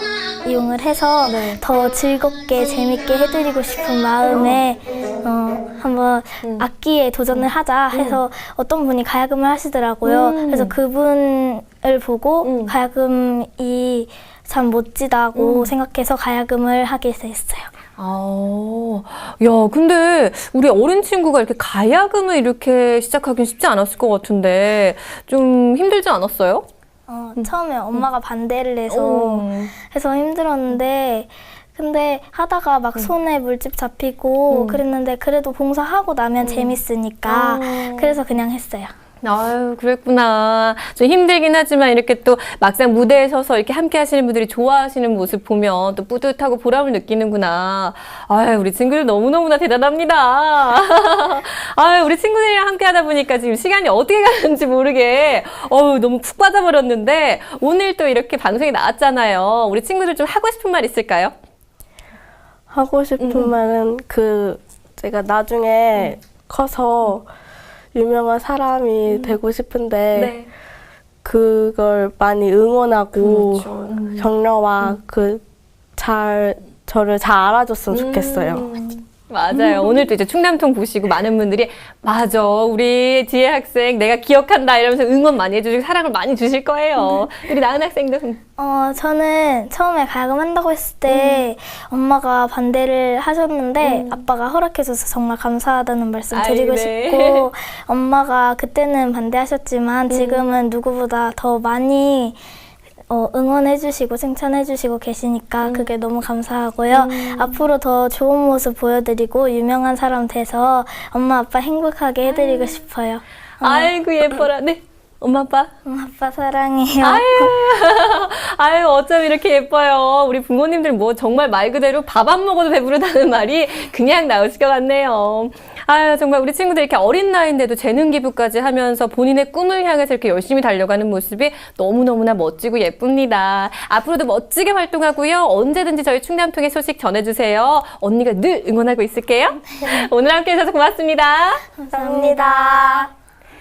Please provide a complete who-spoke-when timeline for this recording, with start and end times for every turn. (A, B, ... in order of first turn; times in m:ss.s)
0:00.4-0:17.7 A
0:01.2-0:01.6 B
0:04.3-0:04.6 B
0:07.4-0:08.2 B
0:10.0-0:10.7 B
0:12.4-0:12.7 B
0:15.3-0:15.7 B
0:18.0-0:26.6 B
0:27.1-0:38.9 A
0:27.4-0:28.0 B
0:28.9-0:29.7 B
0:34.5-0:34.8 B
0:36.4-0:38.2 B
0:39.2-1:01.3 B
1:02.7-1:07.3 C
1:03.2-1:03.5 B
1:07.9-1:10.4 C
1:09.1-1:09.4 B
1:10.1-1:10.5 B
1:11.2-1:15.4 C
1:13.2-1:14.3 B
1:16.0-1:18.7 C
1:17.9-1:28.4 B
1:28.6-1:42.4 A
1:31.1-1:31.5 B
1:33.8-1:34.2 B
1:36.3-1:37.5 B
1:40.1-1:40.5 B
1:43.1-1:53.9 A
1:45.6-1:45.9 B
1:46.9-1:47.6 B
1:52.2-1:52.8 B
1:53.6-1:55.7 B
1:55.8-1:57.5 A
1:57.0-2:21.7 B
2:21.8-2:23.1 A
2:21.9-2:23.1 C